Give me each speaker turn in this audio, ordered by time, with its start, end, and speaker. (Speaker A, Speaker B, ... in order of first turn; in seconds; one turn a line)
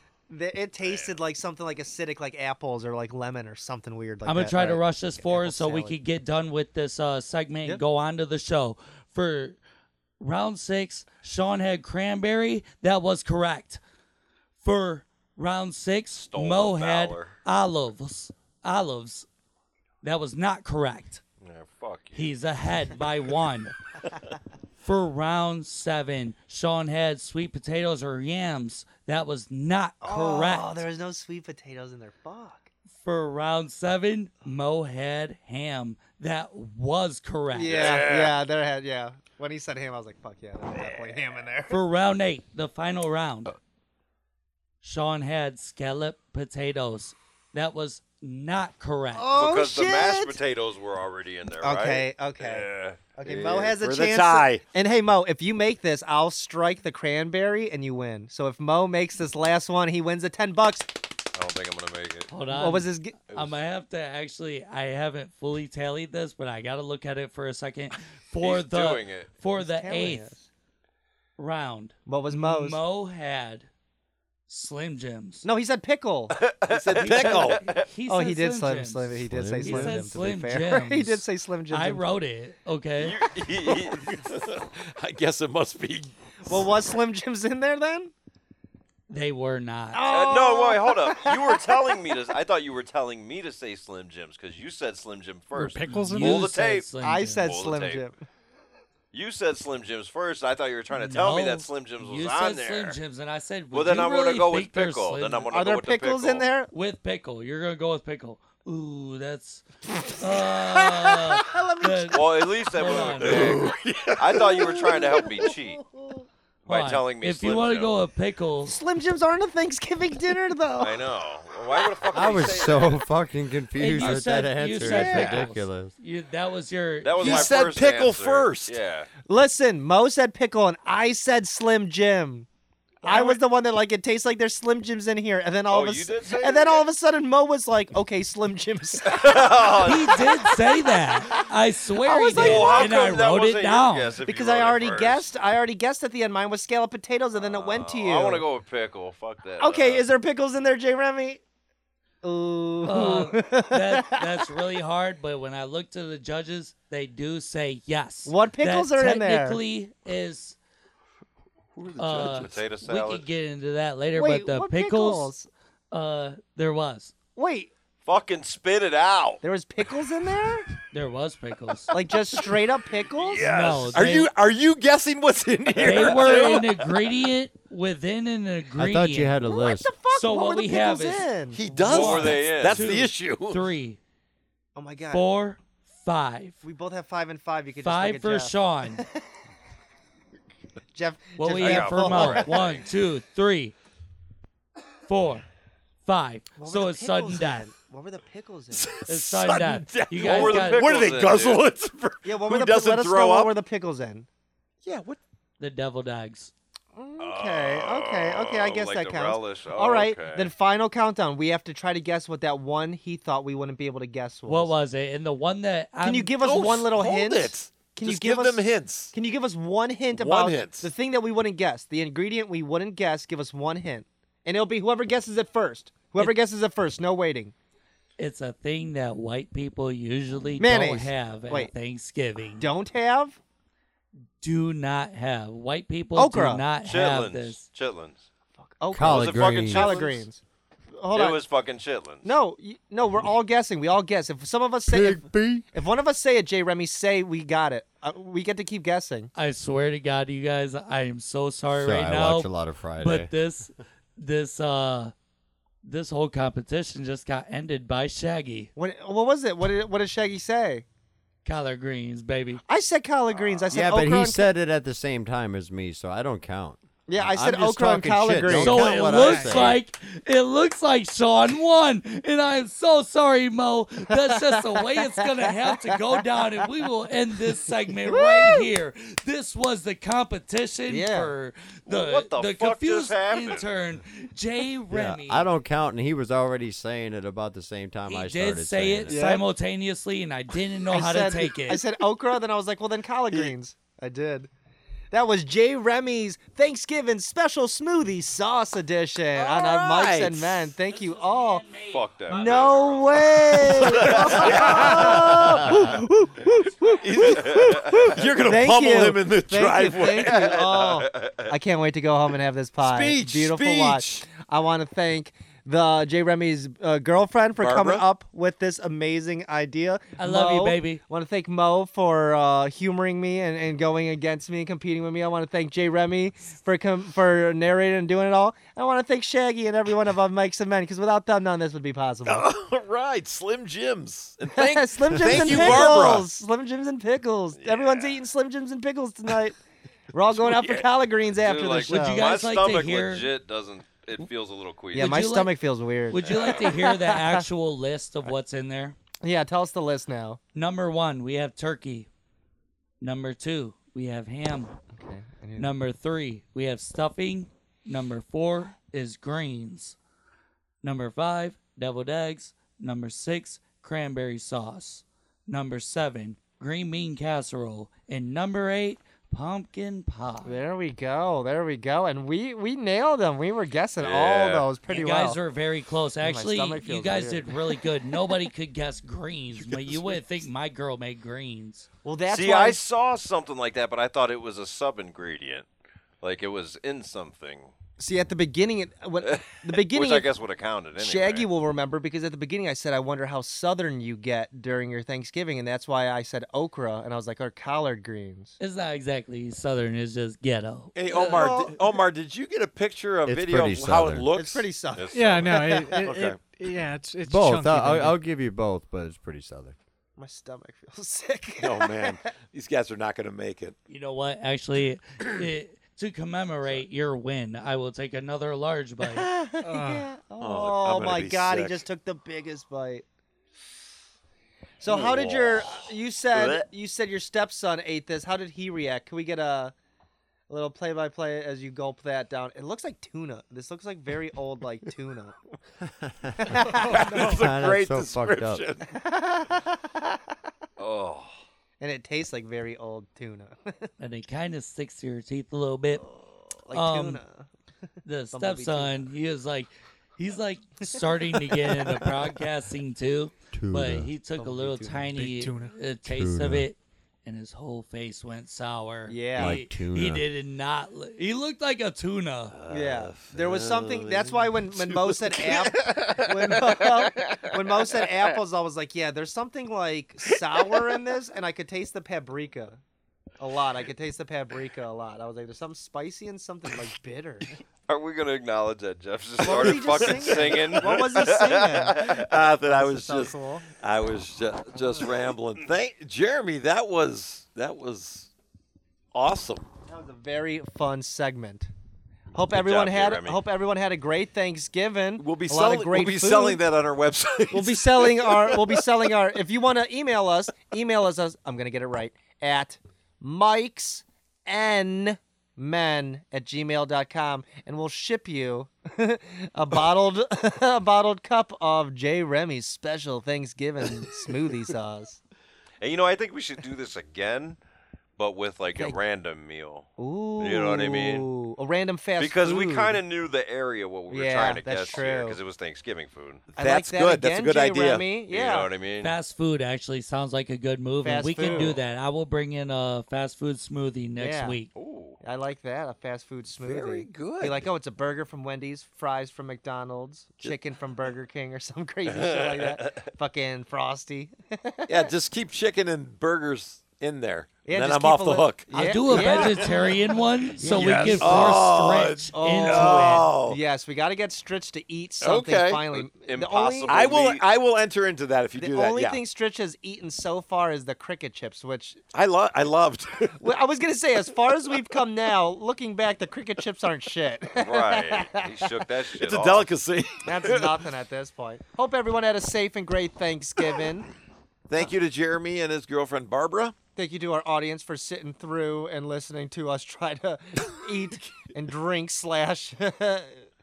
Speaker A: 0.3-6.0
Speaker B: 0.8-1.2
Speaker C: 4.2-9.6
Speaker C: 10.2-13.8
Speaker C: 14.6-19.3
Speaker B: 16.1-17.3
Speaker C: 20.0-21.2
Speaker B: 21.4-22.3
Speaker C: 22.1-23.7
Speaker C: 24.8-30.8
Speaker A: 30.0-32.7
Speaker C: 33.0-38.0
Speaker A: 37.5-41.8
Speaker B: 37.7-38.4
Speaker C: 41.7-43.5
Speaker C: 44.8-49.3
Speaker A: 49.1-50.4
Speaker B: 49.3-53.0
Speaker A: 51.6-61.0
Speaker D: 53.2-54.6
Speaker B: 61.3-62.3
Speaker C: 62.3-70.3
Speaker A: 62.5-63.2
Speaker B: 68.4-69.3
Speaker A: 69.5-70.5
Speaker C: 71.4-73.7
Speaker A: 72.0-72.8
Speaker C: 74.5-75.5
Speaker A: 75.4-76.5
Speaker B: 76.4-77.9
Speaker D: 76.7-77.7
Speaker C: 77.0-83.2
Speaker A: 77.1-82.0
Speaker E: 79.3-80.2
Speaker B: 83.0-84.3
Speaker D: 83.6-86.1
Speaker A: 86.5-88.1
Speaker C: 89.1-90.0
Speaker A: 89.9-91.9
Speaker B: 90.1-98.0
Speaker F: 95.5-96.5
Speaker C: 95.8-97.5
Speaker A: 97.0-98.2
Speaker B: 99.1-103.0
Speaker C: 100.9-105.5
Speaker B: 103.7-106.5
Speaker A: 105.5-106.7
Speaker C: 106.7-113.6
Speaker A: 110.5-112.9
Speaker B: 112.1-115.8
Speaker D: 113.2-115.0
Speaker A: 114.6-116.2
Speaker B: 116.6-117.9
Speaker C: 116.7-118.8
Speaker A: 118.6-121.0
Speaker B: 120.8-123.0
Speaker E: 122.1-125.9
Speaker C: 123.8-127.5
Speaker B: 127.0-129.1
Speaker D: 127.2-128.8
Speaker A: 129.3-132.5
Speaker C: 133.0-133.4
Speaker A: 133.0-141.4
Speaker B: 135.7-136.9
Speaker B: 139.0-140.5
Speaker C: 139.8-144.2
Speaker A: 142.0-143.1
Speaker B: 142.1-145.3
Speaker A: 144.2-148.4
Speaker B: 147.3-150.1
Speaker A: 149.6-151.4
Speaker A: 152.2-154.5
Speaker C: 152.8-160.6
Speaker A: 158.2-159.6
Speaker D: 161.7-162.6
Speaker C: 162.0-165.3
Speaker B: 162.2-163.3
Speaker A: 164.2-165.5
Speaker C: 165.9-167.1
Speaker A: 167.3-167.7
Speaker B: 168.0-169.4
Speaker A: 169.4-170.7
Speaker C: 170.9-171.9
Speaker A: 171.9-173.5
Speaker B: 173.1-173.9
Speaker D: 173.3-176.7
Speaker C: 173.4-174.3
Speaker B: 175.7-176.7
Speaker C: 175.8-179.3
Speaker E: 178.8-179.9
Speaker A: 179.4-182.5
Speaker C: 180.1-181.3
Speaker D: 181.5-183.6
Speaker C: 181.8-184.0
Speaker B: 181.8-183.0
Speaker A: 184.7-185.2
Speaker C: 185.1-186.6
Speaker A: 186.6-189.2
Speaker C: 187.8-189.0
Speaker A: 190.9-192.6
Speaker C: 191.4-193.7
Speaker B: 191.6-192.9
Speaker C: 195.1-195.4
Speaker C: 196.0-197.7
Speaker A: 196.6-199.0
Speaker D: 198.7-203.5
Speaker C: 199.1-200.9
Speaker B: 200.2-201.7
Speaker A: 202.2-204.3
Speaker D: 204.8-205.2
Speaker C: 205.6-206.5
Speaker A: 206.9-214.7
Speaker B: 207.2-210.5
Speaker C: 214.5-216.3
Speaker A: 216.0-227.5
Speaker D: 216.4-219.1
Speaker D: 220.1-220.9
Speaker C: 228.2-232.7
Speaker A: 230.6-231.7
Speaker A: 232.6-233.4
Speaker C: 234.4-237.7
Speaker A: 236.2-236.6
Speaker B: 236.8-238.2
Speaker A: 238.6-240.4
Speaker E: 238.9-240.0
Speaker B: 239.0-240.2
Speaker A: 241.0-241.4
Speaker B: 241.1-242.3
Speaker A: 242.2-249.3
Speaker E: 244.8-245.7
Speaker C: 249.3-255.1
Speaker E: 251.7-253.3
Speaker C: 255.8-258.7
Speaker A: 258.8-260.8
Speaker C: 261.4-262.6
Speaker A: 262.7-264.4
Speaker B: 263.3-263.7
Speaker E: 263.7-269.8
Speaker A: 267.1-269.6
Speaker C: 268.5-285.5
Speaker F: 269.1-269.7
Speaker A: 274.1-275.8
Speaker A: 278.1-278.6
Speaker A: 280.9-281.3
Speaker B: 281.9-283.6
Speaker E: 284.9-289.2
Speaker C: 288.1-291.8
Speaker A: 289.1-289.4
Speaker A: 290.9-294.5
Speaker A: 295.1-301.7
Speaker D: 299.4-300.7
Speaker C: 300.9-303.2
Speaker B: 301.9-305.8
Speaker A: 302.3-307.6
Speaker D: 303.6-305.8
Speaker C: 304.1-304.5
Speaker C: 306.6-306.9
Speaker D: 307.0-310.6
Speaker B: 307.2-308.2
Speaker A: 308.4-332.5
Speaker B: 310.1-311.5
Speaker D: 312.8-314.2
Speaker D: 317.6-318.0
Speaker C: 320.2-321.0
Speaker D: 332.2-336.3
Speaker A: 334.5-339.6
Speaker B: 335.3-336.0
Speaker B: 337.5-338.2
Speaker A: 340.1-342.3
Speaker B: 340.3-345.3
Speaker C: 341.9-343.3
Speaker C: 344.9-345.5
Speaker A: 344.9-347.4
Speaker C: 346.1-349.0
Speaker A: 349.2-350.4
Speaker C: 350.5-352.1
Speaker C: 353.0-354.8
Speaker A: 354.9-355.7
Speaker C: 355.6-360.0
Speaker C: 360.8-370.5
Speaker A: 370.4-375.4
Speaker B: 374.0-374.7
Speaker C: 374.9-381.9
Speaker A: 376.2-377.8
Speaker D: 379.5-380.2
Speaker A: 382.0-382.8
Speaker B: 382.3-385.7
Speaker B: 386.2-387.7
Speaker A: 388.0-390.3
Speaker B: 389.2-391.5
Speaker A: 391.0-398.6
Speaker C: 398.6-401.4
Speaker D: 400.9-404.7
Speaker A: 401.1-401.9
Speaker E: 403.2-404.3
Speaker A: 404.3-406.0
Speaker B: 404.9-406.0
Speaker F: 405.1-408.2
Speaker D: 406.0-406.4
Speaker E: 407.2-409.8
Speaker A: 410.2-412.2
Speaker D: 411.6-413.8
Speaker C: 413.9-419.3
Speaker A: 419.0-423.0
Speaker F: 419.6-420.1
Speaker D: 420.4-421.8
Speaker A: 424.8-429.7
Speaker D: 424.9-426.6
Speaker A: 430.5-435.4
Speaker E: 435.8-438.6
Speaker A: 436.4-437.4
Speaker D: 436.7-438.9
Speaker A: 438.9-439.7
Speaker B: 440.8-441.4
Speaker A: 441.8-443.9
Speaker C: 444.0-446.0
Speaker A: 446.1-447.5
Speaker C: 446.7-447.2
Speaker C: 448.0-462.5
Speaker A: 448.3-449.1
Speaker A: 451.4-452.1
Speaker E: 453.5-454.1
Speaker A: 454.4-455.2
Speaker F: 455.1-455.8
Speaker E: 456.1-456.7
Speaker A: 459.1-459.6
Speaker E: 459.4-460.2
Speaker D: 462.7-466.1
Speaker A: 462.7-472.8
Speaker B: 462.7-463.1
Speaker A: 473.4-477.6
Speaker B: 477.9-482.3
Speaker A: 479.4-483.6
Speaker D: 479.4-480.9
Speaker D: 482.1-488.3
Speaker D: 489.1-489.7
Speaker A: 489.9-491.7
Speaker A: 492.3-496.6
Speaker B: 492.5-493.4
Speaker D: 495.2-498.9
Speaker A: 497.5-515.2
Speaker B: 515.8-517.6
Speaker B: 518.2-521.3
Speaker A: 520.0-523.0
Speaker B: 522.2-526.4
Speaker A: 524.1-525.4
Speaker D: 526.5-528.1
Speaker A: 526.6-528.7
Speaker B: 528.3-529.1
Speaker C: 529.0-534.7
Speaker A: 531.0-531.8
Speaker A: 534.2-534.6
Speaker B: 534.7-535.2
Speaker A: 535.2-545.1
Speaker D: 536.6-537.7
Speaker B: 542.0-543.0
Speaker D: 544.9-549.7
Speaker A: 547.6-551.6
Speaker C: 548.7-553.3
Speaker D: 550.8-553.6
Speaker B: 550.9-551.5
Speaker A: 552.3-557.1
Speaker D: 555.2-555.8
Speaker B: 555.9-557.4
Speaker D: 556.9-559.2
Speaker A: 558.5-562.0
Speaker D: 562.1-563.4
Speaker A: 563.4-568.8
Speaker B: 567.5-569.7
Speaker D: 569.2-570.8
Speaker A: 570.2-574.1
Speaker D: 574.7-576.7
Speaker A: 577.0-583.4